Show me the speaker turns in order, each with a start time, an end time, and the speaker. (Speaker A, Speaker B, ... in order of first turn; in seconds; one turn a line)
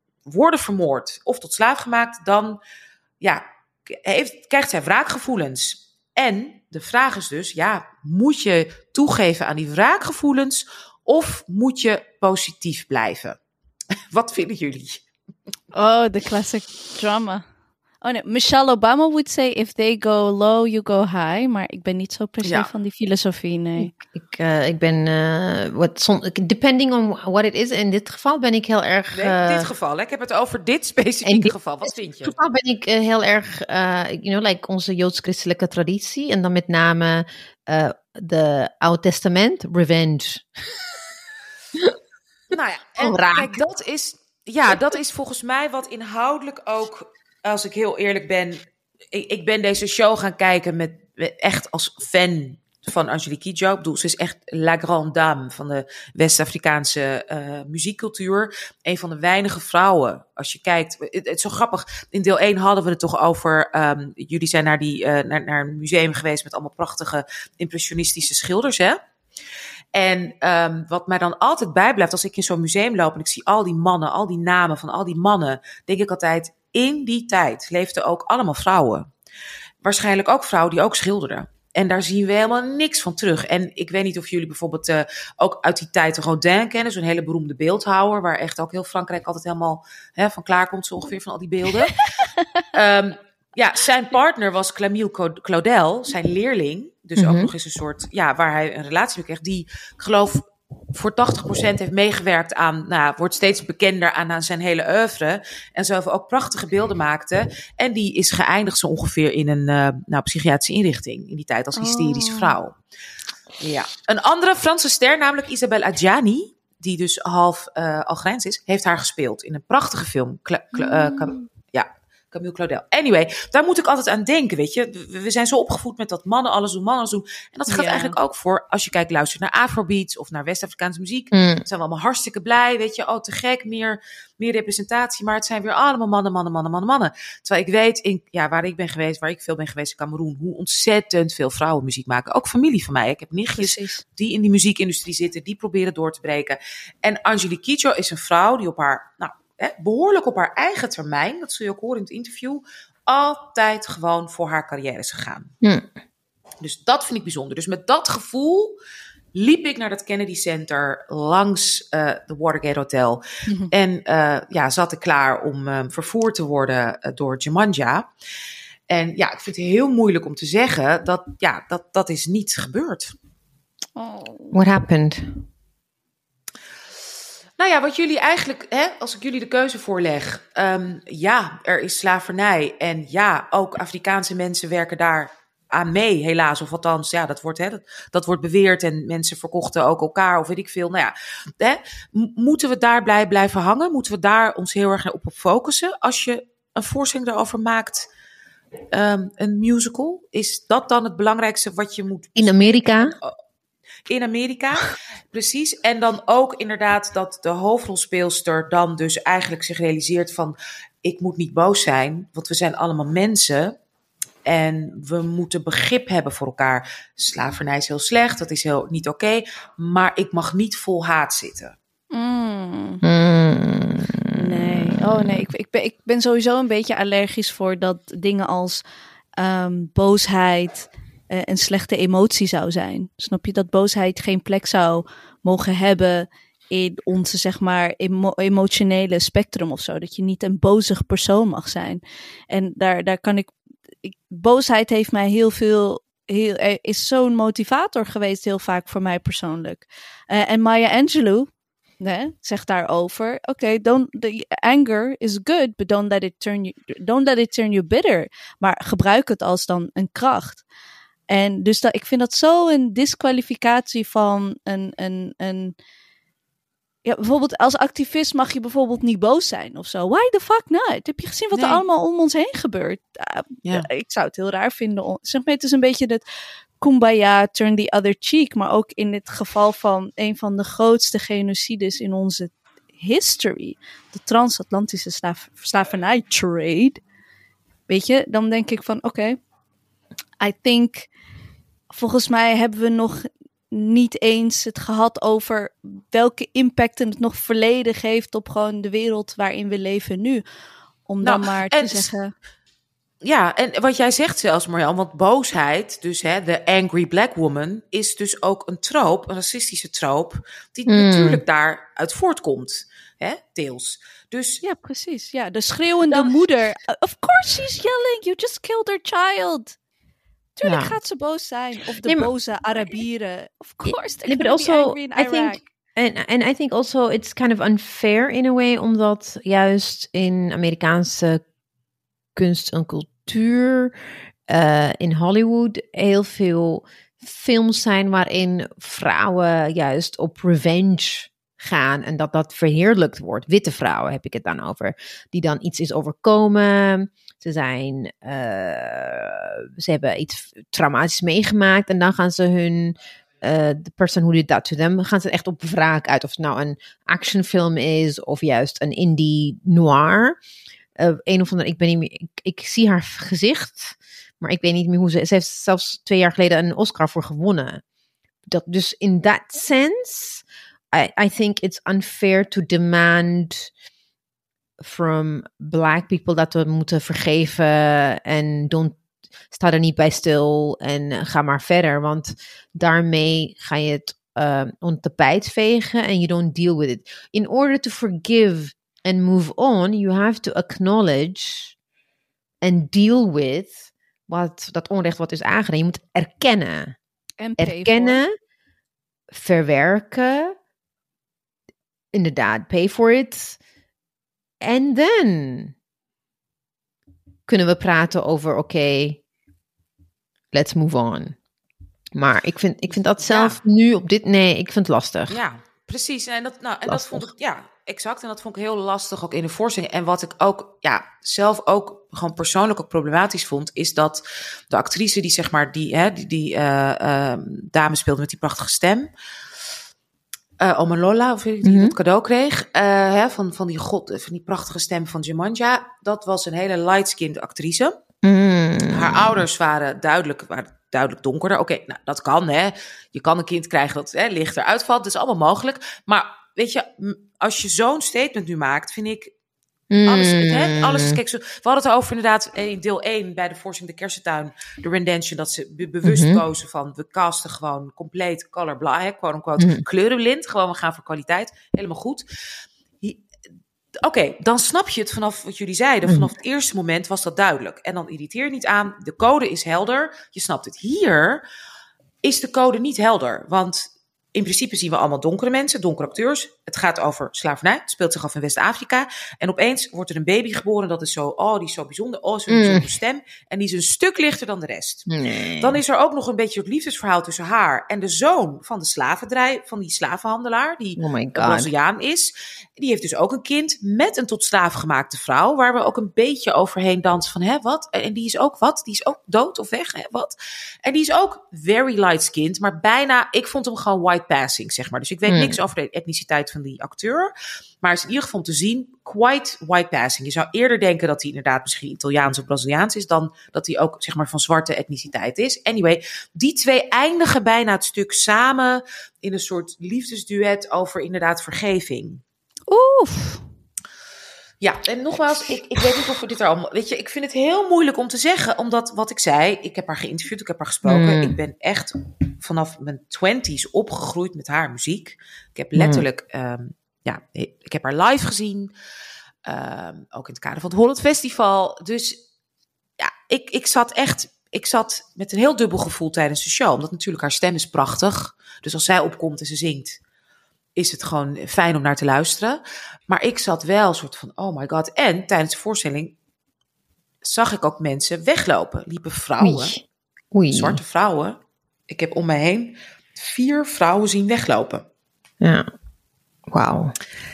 Speaker A: 0.2-2.6
Speaker A: 3.2-13.4
Speaker A: 14.1-15.0
Speaker B: 15.7-17.4
Speaker B: 18.0-23.9
Speaker A: 22.4-22.7
Speaker C: 23.8-29.7
Speaker A: 29.1-32.3
Speaker C: 31.2-40.6
Speaker A: 42.5-48.6
Speaker C: 43.0-43.6
Speaker A: 49.1-69.0
Speaker A: 69.9-79.1
Speaker A: 79.8-92.0
Speaker A: 92.7-112.8
Speaker C: 97.2-97.5
Speaker B: 111.7-112.5
Speaker A: 113.6-155.5
Speaker B: 120.7-121.4
Speaker B: 127.7-128.2
Speaker C: 131.3-131.6
Speaker B: 143.6-144.0
Speaker C: 155.6-155.9
Speaker A: 156.6-158.8
Speaker A: 159.3-168.1
Speaker A: 168.9-173.1
Speaker B: 173.9-174.6
Speaker C: 174.5-175.3
Speaker A: 177.6-198.1
Speaker A: 198.9-203.4
Speaker C: 202.3-203.2
Speaker A: 204.1-213.8
Speaker A: 214.4-221.8
Speaker B: 222.1-223.0
Speaker C: 223.0-225.3
Speaker B: 224.3-228.8
Speaker B: 229.4-243.5
Speaker B: 244.0-251.5
Speaker B: 252.0-260.6
Speaker B: 261.3-265.7
Speaker B: 267.0-276.2
Speaker A: 271.5-271.8
Speaker B: 276.8-287.0
Speaker B: 287.9-289.4
Speaker B: 290.4-291.1
Speaker B: 291.9-300.4
Speaker B: 301.1-302.3
Speaker A: 301.2-302.1
Speaker A: 303.2-314.6
Speaker C: 310.9-311.4
Speaker B: 314.6-319.8
Speaker B: 320.6-325.6
Speaker C: 320.6-320.9
Speaker C: 322.0-322.3
Speaker C: 323.8-331.4
Speaker C: 332.4-333.9
Speaker C: 334.5-360.4
Speaker C: 361.0-367.8
Speaker C: 368.5-373.7
Speaker C: 374.8-379.0
Speaker C: 379.5-391.7
Speaker C: 392.6-396.9
Speaker B: 397.4-398.2
Speaker C: 397.6-398.3
Speaker C: 399.3-400.5
Speaker C: 402.1-403.6
Speaker C: 404.6-405.7
Speaker C: 407.5-409.2
Speaker C: 410.5-411.4
Speaker C: 412.1-415.4
Speaker A: 412.9-413.6
Speaker A: 415.3-429.1
Speaker C: 416.9-417.2
Speaker A: 430.6-438.0
Speaker C: 431.6-431.9
Speaker C: 438.2-439.4
Speaker A: 438.9-449.3
Speaker C: 449.9-451.2
Speaker A: 450.1-462.2
Speaker C: 456.0-456.4
Speaker C: 459.6-459.8
Speaker A: 464.0-471.4
Speaker A: 472.2-485.1
Speaker C: 482.5-482.9
Speaker C: 485.1-485.8
Speaker A: 485.6-522.2
Speaker C: 491.0-491.7
Speaker C: 505.3-505.6
Speaker B: 522.7-523.4
Speaker A: 524.6-538.7
Speaker C: 530.8-531.4
Speaker C: 535.8-536.0
Speaker A: 539.4-542.2
Speaker A: 543.0-550.0
Speaker A: 550.8-556.1
Speaker A: 557.2-559.8
Speaker C: 559.4-560.8
Speaker A: 560.5-564.9
Speaker C: 565.4-565.6
Speaker C: 566.5-566.9